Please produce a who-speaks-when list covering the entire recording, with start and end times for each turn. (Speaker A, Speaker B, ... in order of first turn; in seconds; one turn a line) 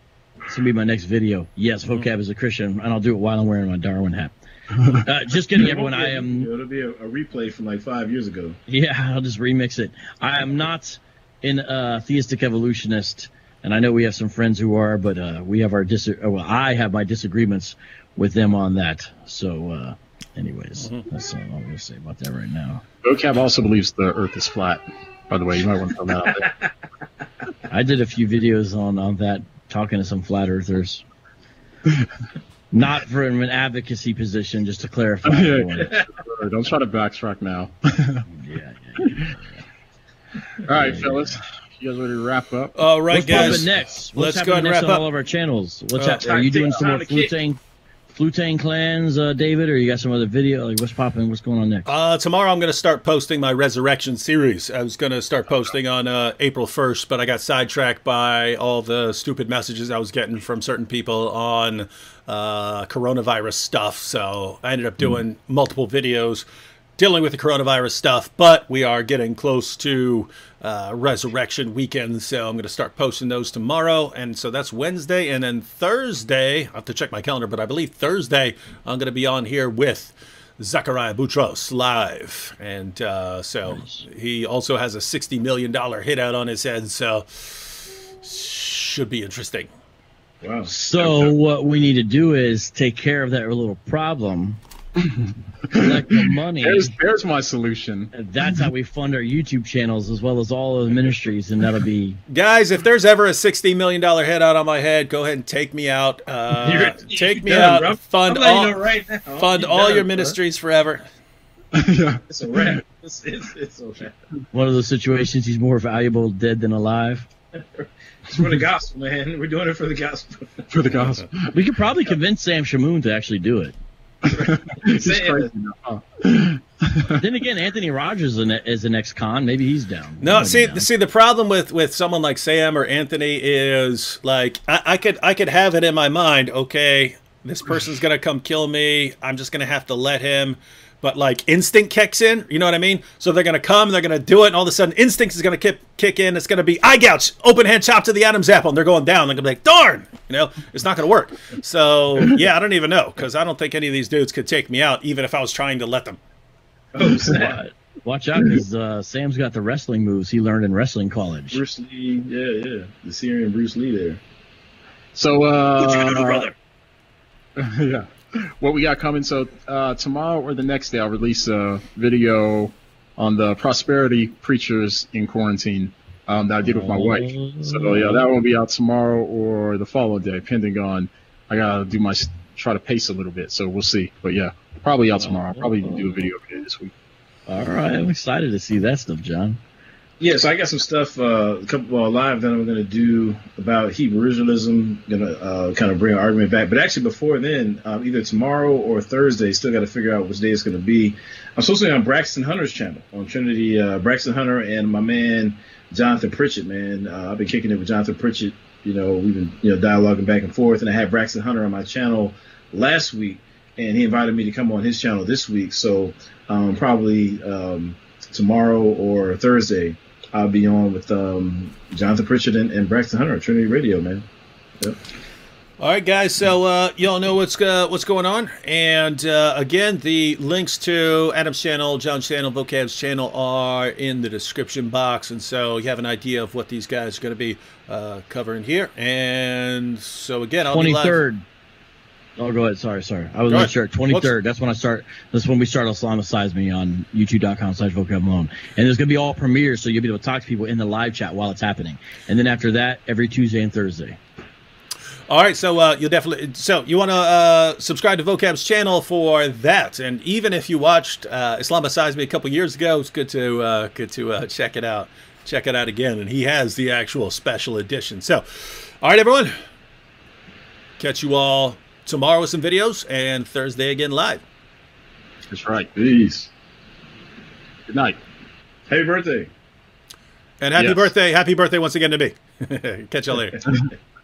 Speaker A: 0.5-4.3
Speaker A: 4.9-6.5
Speaker B: 5.5-8.6
Speaker A: 8.7-22.8
Speaker C: 23.0-26.5
Speaker A: 27.7-31.0
Speaker A: 32.7-36.0
Speaker C: 35.3-38.2
Speaker A: 38.3-39.6
Speaker C: 39.0-39.3
Speaker C: 40.6-43.7
Speaker A: 40.8-41.4
Speaker D: 42.8-45.0
Speaker A: 43.1-47.6
Speaker D: 46.0-46.2
Speaker B: 46.2-47.3
Speaker A: 48.1-51.9
Speaker D: 51.9-66.4
Speaker D: 67.0-89.7
Speaker A: 83.8-84.0
Speaker B: 90.4-91.3
Speaker A: 90.7-94.6
Speaker C: 95.0-98.1
Speaker A: 95.7-96.9
Speaker A: 98.1-102.2
Speaker D: 102.3-108.8
Speaker B: 106.6-110.3
Speaker D: 109.4-111.0
Speaker C: 111.7-112.8
Speaker B: 112.3-114.1
Speaker A: 114.5-117.3
Speaker B: 117.5-120.7
Speaker C: 120.7-121.5
Speaker A: 121.5-123.7
Speaker C: 124.2-127.2
Speaker B: 124.3-125.5
Speaker A: 127.1-130.9
Speaker D: 130.2-156.2
Speaker B: 156.9-157.6
Speaker A: 157.3-161.6
Speaker B: 161.5-164.2
Speaker C: 165.1-166.5
Speaker A: 165.8-166.5
Speaker C: 167.6-186.9
Speaker A: 176.6-178.3
Speaker A: 185.5-186.2
Speaker A: 187.5-189.6
Speaker B: 190.2-224.2
Speaker D: 225.8-241.2
Speaker A: 240.7-241.4
Speaker A: 242.4-254.2
Speaker D: 243.5-244.3
Speaker D: 255.3-269.6
Speaker D: 271.0-274.4
Speaker C: 275.4-276.5
Speaker C: 277.9-278.2
Speaker B: 278.9-279.5
Speaker D: 280.6-283.6
Speaker C: 280.8-281.1